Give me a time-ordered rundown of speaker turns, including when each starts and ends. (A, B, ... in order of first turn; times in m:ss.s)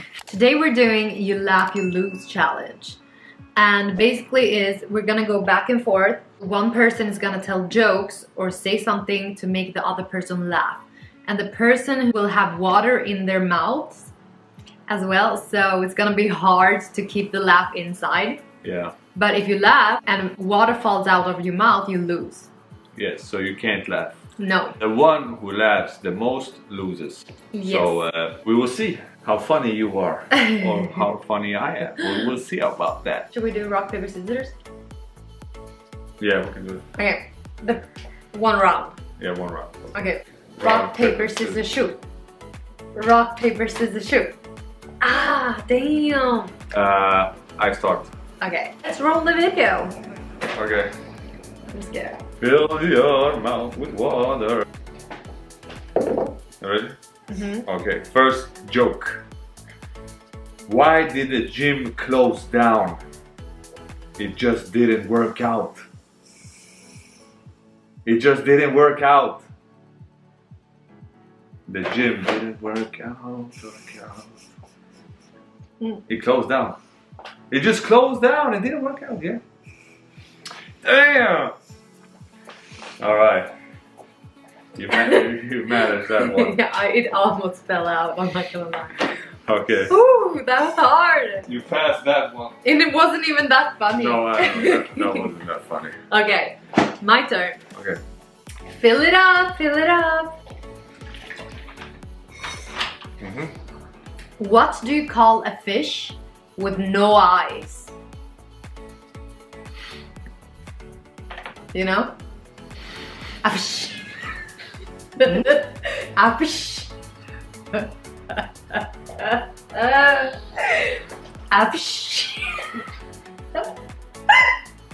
0:00.3-0:03.0 A
0:03.6-0:14.1 A
0:14.9-0:18.4 A
0:18.6-0:18.9 B
0:19.2-0:22.5 A
0:23.0-0:24.2 B
0:24.4-0:24.8 A
0:24.8-0:33.3 B
0:27.5-0:28.0 A
0:33.3-0:34.5 A
0:36.2-0:36.8 B
0:37.0-0:39.0 A
0:39.2-0:40.0 B
0:40.0-0:42.0 A
0:40.6-0:41.6 B
0:42.9-0:44.4 A
0:45.0-0:46.6 A
0:46.7-0:48.1 B
0:48.4-0:49.9 A
0:50.5-0:50.9 B
0:51.7-0:52.2 A
0:52.4-0:54.6 B
0:56.6-0:57.0 B
0:57.3-0:57.6 A
0:57.6-0:59.2 B
1:00.7-1:03.0 B
1:04.2-1:05.9 B
1:08.0-1:09.4 B
1:11.7-1:14.5 B
1:16.1-1:16.8 B
1:17.5-1:19.4 B
1:20.8-1:21.5 B
1:23.0-1:23.5 B
1:24.8-1:26.6 B
1:26.2-1:29.3 A
1:29.5-1:29.9 B
1:29.9-1:31.5 A
1:31.5-1:32.6 B
1:32.6-1:35.3 A
1:33.9-1:36.0 B
1:36.1-1:37.6 A
1:38.7-1:40.4 A
1:43.2-1:43.5 B
1:44.4-1:47.9 A
1:51.7-1:52.1 A
1:53.4-1:54.1 A
1:55.2-1:56.9 A
1:57.7-2:02.8 A